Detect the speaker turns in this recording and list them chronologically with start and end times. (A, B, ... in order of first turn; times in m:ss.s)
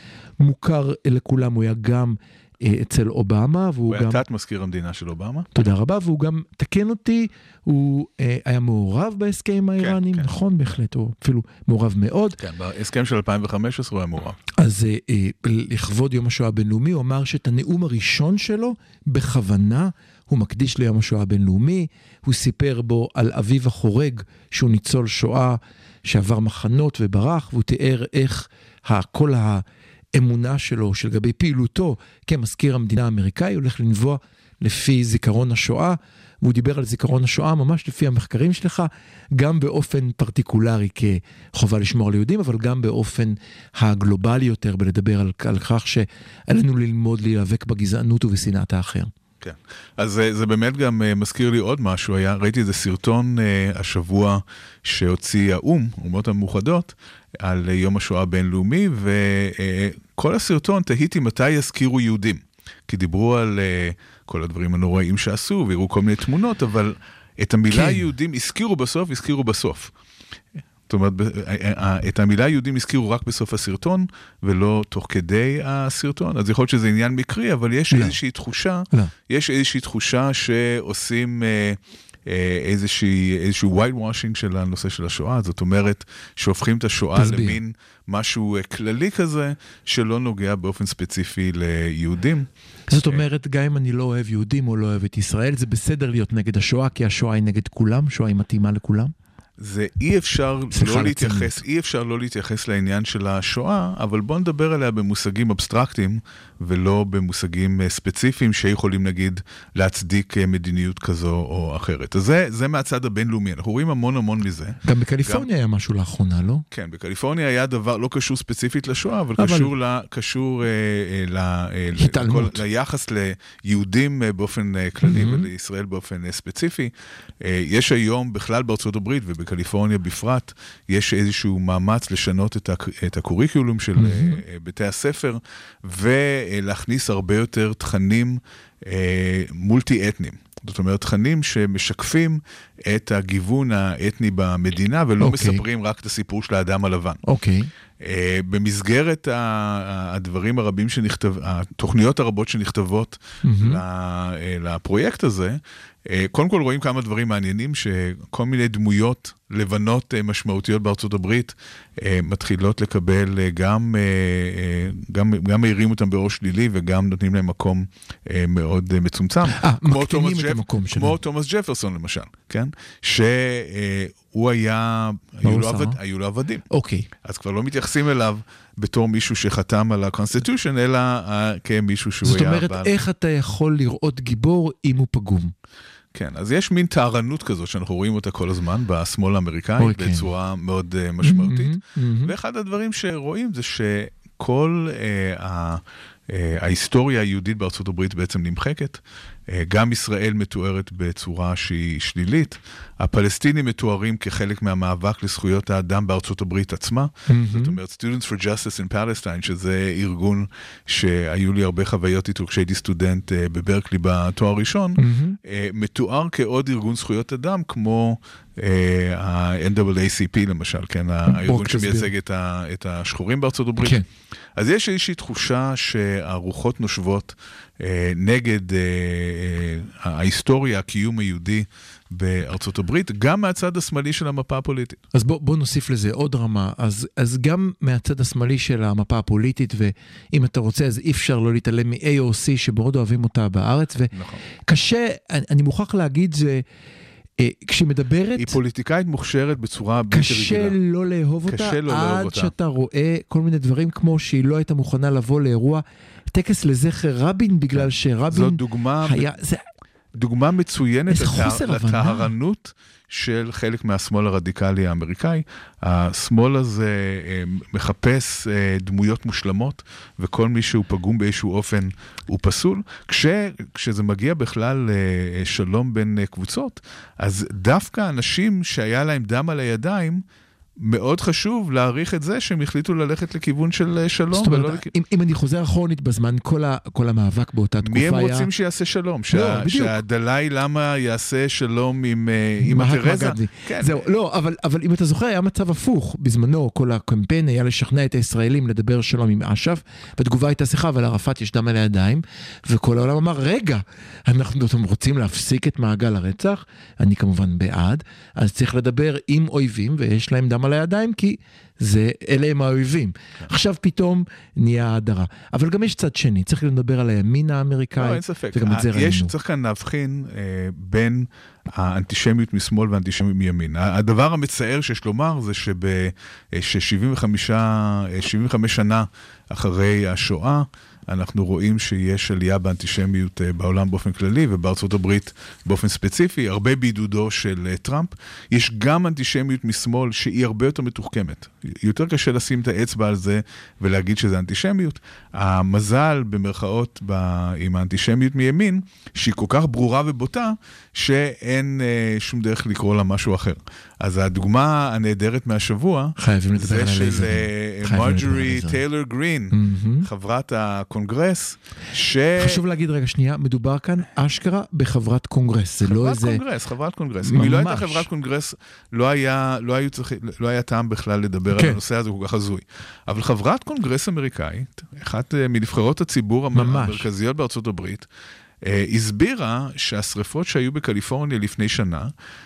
0:00.4-0:04.2 A
0:03.9-0:05.5 B
0:05.5-0:12.4 A
0:09.8-0:10.3 B
0:12.4-0:14.4 B
0:14.6-0:49.1 A
0:49.4-1:09.9 B
1:07.7-1:08.1 A
1:10.9-1:32.5 B
1:17.9-1:18.2 A
1:27.1-1:27.6 A
1:32.9-1:39.1 A
1:39.6-1:55.5 B
1:40.7-1:41.6 A
1:54.8-1:56.7 A
1:56.7-2:27.2 B
1:59.4-1:59.7 A
2:02.0-2:02.6 A
2:05.0-2:05.5 A
2:14.0-2:14.4 A
2:25.2-2:25.6 A
2:27.2-2:27.7 A
2:28.0-2:56.7 B
2:33.4-2:33.8 A
2:49.5-2:51.2 A
2:55.4-2:56.0 A
2:56.7-2:57.1 A
2:57.2-3:03.0 B
3:02.2-3:05.5 A
3:06.1-3:44.0 B
3:09.8-3:10.3 A
3:11.2-3:12.3 A
3:27.3-3:27.8 A
3:35.0-3:35.4 A
3:41.3-3:42.1 A
3:43.8-3:44.0 A
3:44.6-3:55.0 B
3:55.1-4:06.6 A
4:04.1-4:04.4 B
4:07.4-4:08.6 A
4:08.4-4:10.8 B
4:10.1-4:19.6 A
4:11.5-4:12.5 B
4:17.8-4:19.3 B
4:20.2-4:40.2 B
4:21.1-4:22.3 A
4:40.8-4:44.9 B
4:44.3-4:48.5 A
4:47.8-4:54.0 B
4:49.3-4:50.0 A
4:52.6-5:19.3 A
5:18.0-6:02.6 B
5:56.2-5:58.8 A
5:59.5-6:00.1 A
6:02.4-6:06.4 A
6:05.8-6:18.1 B
6:07.2-6:08.1 A
6:11.5-6:11.8 A
6:16.5-6:17.1 A
6:18.6-6:22.1 B